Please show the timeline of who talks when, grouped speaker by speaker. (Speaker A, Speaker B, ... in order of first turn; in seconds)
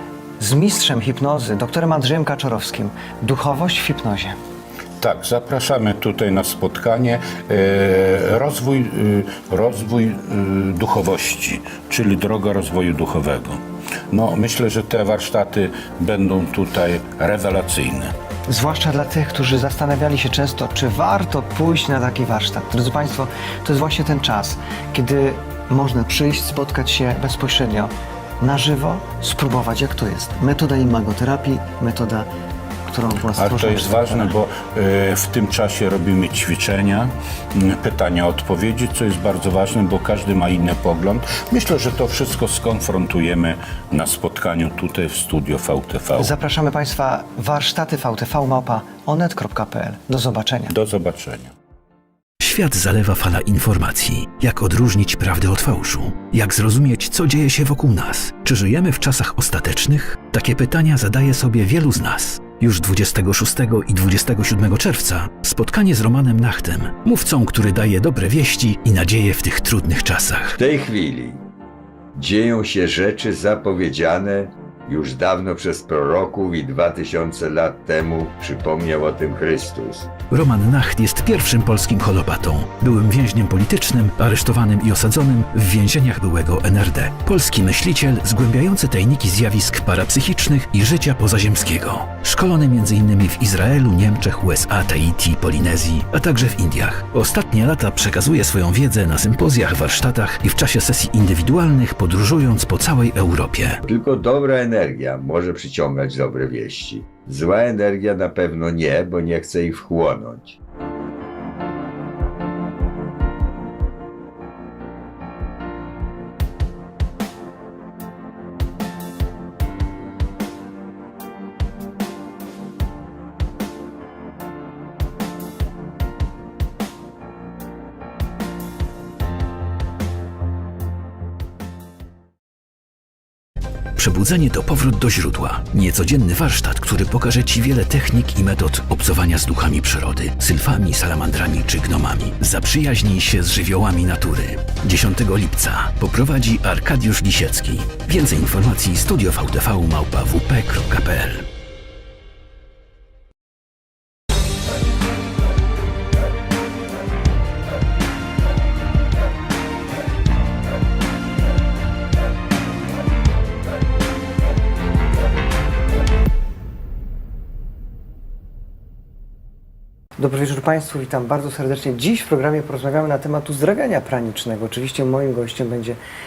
Speaker A: 0.4-4.4, 18.5-32.3, 32.9-34.3, 46.2-50.7, 170.2-176.0
Speaker B: 5.0-13.6, 14.1-18.1, 33.3-46.3, 50.7-51.5
Speaker C: 52.4-70.6, 80.3-103.8, 134.0-151.5
Speaker D: 70.6-71.4, 72.2-80.1, 103.8-110.6